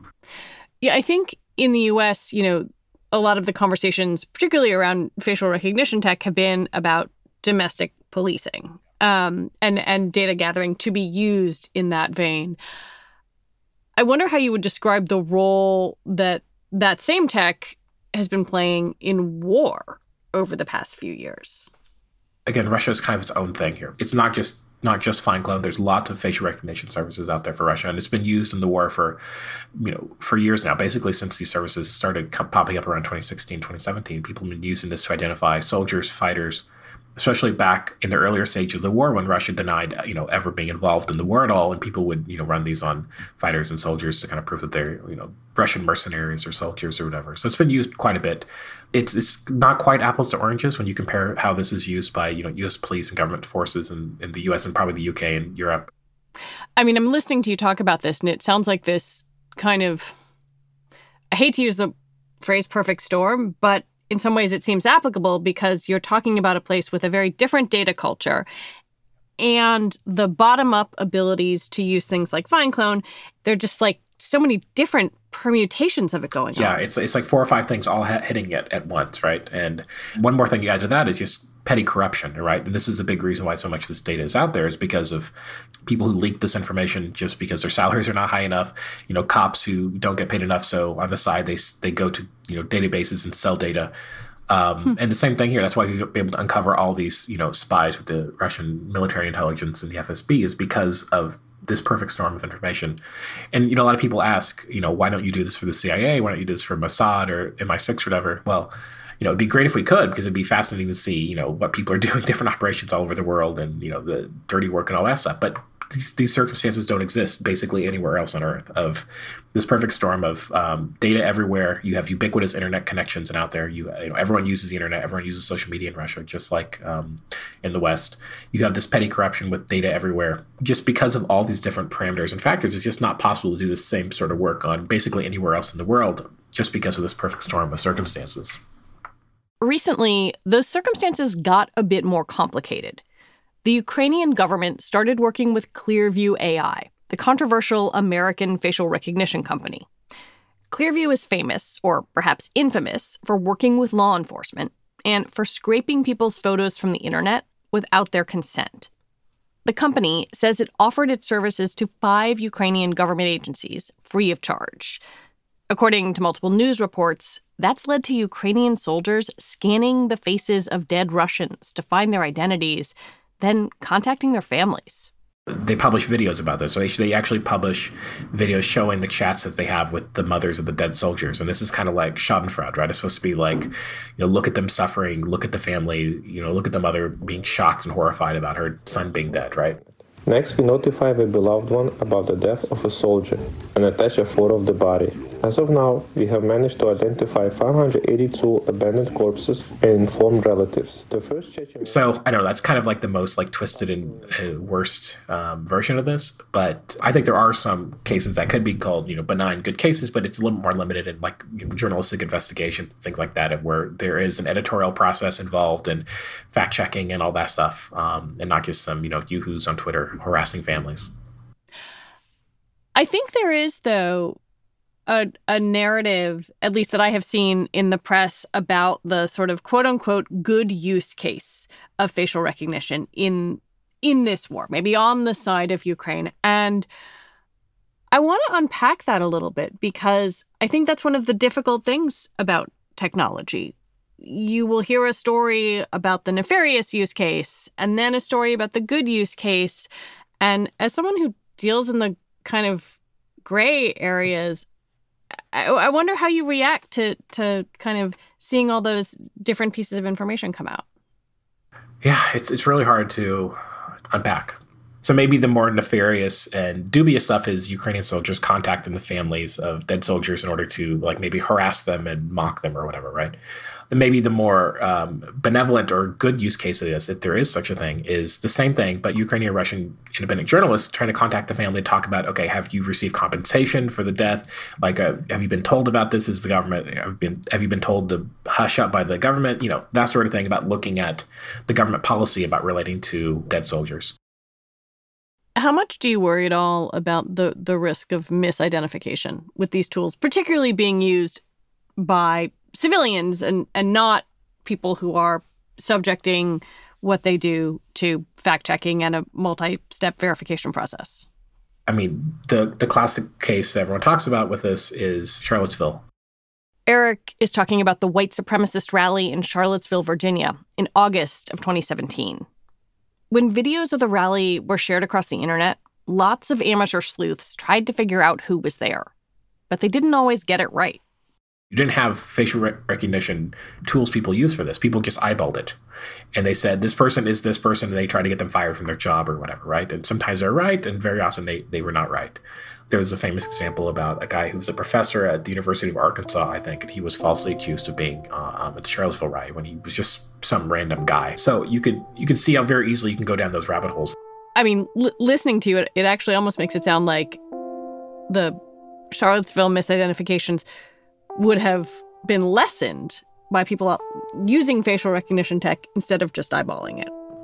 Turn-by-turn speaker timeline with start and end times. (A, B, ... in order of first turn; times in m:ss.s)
0:00.8-0:12.6 A
0:14.0-0:21.7 A
0:22.5-0:29.2 B
0:29.8-0:36.6 B
0:37.2-0:55.9 B
0:56.8-1:00.2 A
1:01.3-1:08.5 A
1:09.4-1:16.8 A
1:16.6-1:25.3 B
1:25.9-1:33.9 B
1:34.5-1:43.0 B
1:43.5-2:18.6 B
2:19.6-2:23.0 A
2:23.6-2:29.9 A
2:30.7-2:38.9 A
2:39.6-2:45.0 A
2:45.7-2:55.1 A
2:55.6-3:09.8 B
3:10.2-3:22.0 C
3:21.8-3:41.1 B
3:43.0-3:44.4 A
3:45.1-3:56.9 A
3:58.1-4:09.9 A
4:10.4-4:14.6 A
4:15.5-4:20.8 A
4:22.0-4:23.6 B
4:24.1-4:33.4 B
4:33.9-4:54.1 B
4:55.6-5:01.4 A
5:02.0-5:11.2 A
5:11.9-5:16.0 B
5:16.9-5:22.5 A
5:23.3-5:29.1 A
5:29.7-5:31.0 A
5:31.7-5:35.8 B
5:36.4-5:42.4 B
5:42.9-5:54.2 B
5:54.6-5:57.4 A
5:58.3-5:58.6 A
5:59.1-6:00.6 A
6:01.4-6:07.1 A